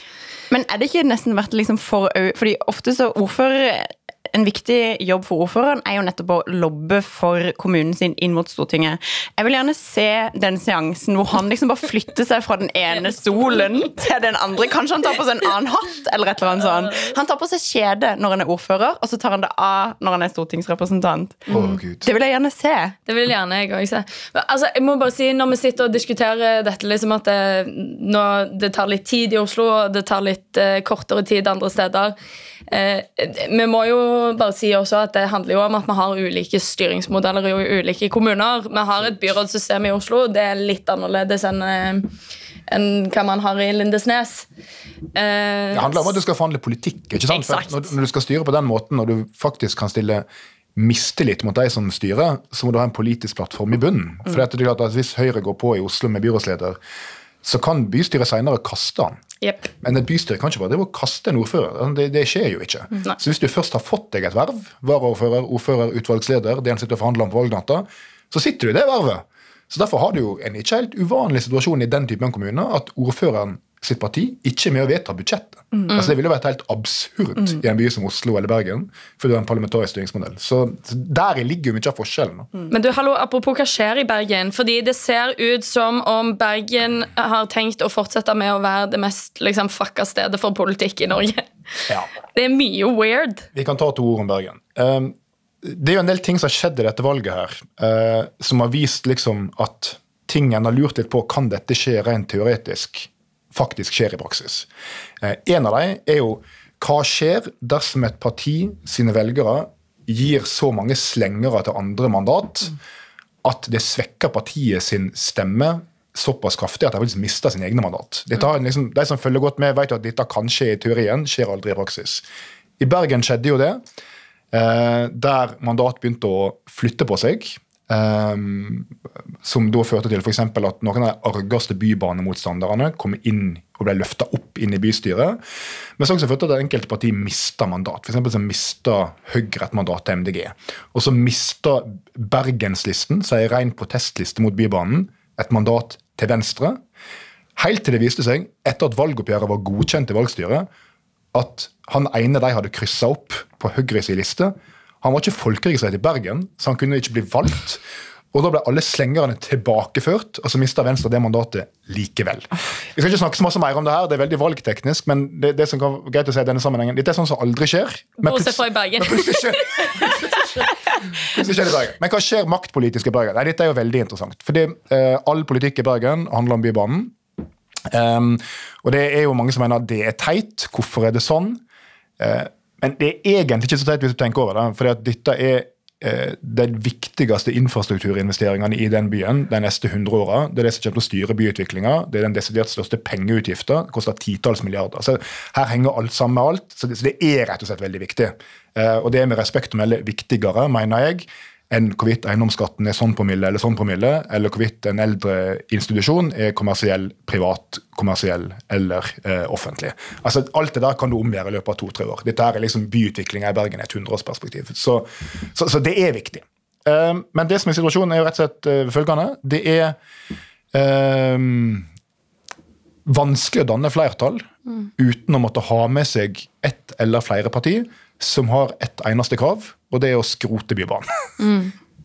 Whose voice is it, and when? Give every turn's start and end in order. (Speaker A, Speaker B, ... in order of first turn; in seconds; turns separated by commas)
Speaker A: 0.5-23.0, Speaker B: 21.5-22.1, Speaker C: 23.1-32.1, Speaker C: 32.7-42.1, Speaker C: 42.7-44.5, Speaker C: 45.1-46.2, Speaker B: 45.7-50.2, Speaker C: 47.3-47.9, Speaker B: 50.8-56.8, Speaker B: 57.4-59.2, Speaker C: 59.4-59.7, Speaker B: 59.8-82.5, Speaker C: 82.7-93.5, Speaker B: 93.5-104.7, Speaker B: 105.2-112.8, Speaker B: 113.4-122.2, Speaker B: 122.8-123.8, Speaker B: 124.5-128.9, Speaker B: 129.4-135.4, Speaker B: 136.0-146.8, Speaker B: 147.6-150.7, Speaker B: 151.3-177.2, Speaker C: 168.2-170.4, Speaker B: 177.9-181.6, Speaker B: 182.2-220.0, Speaker B: 220.7-221.9, Speaker B: 223.1-231.1, Speaker C: 231.4-231.7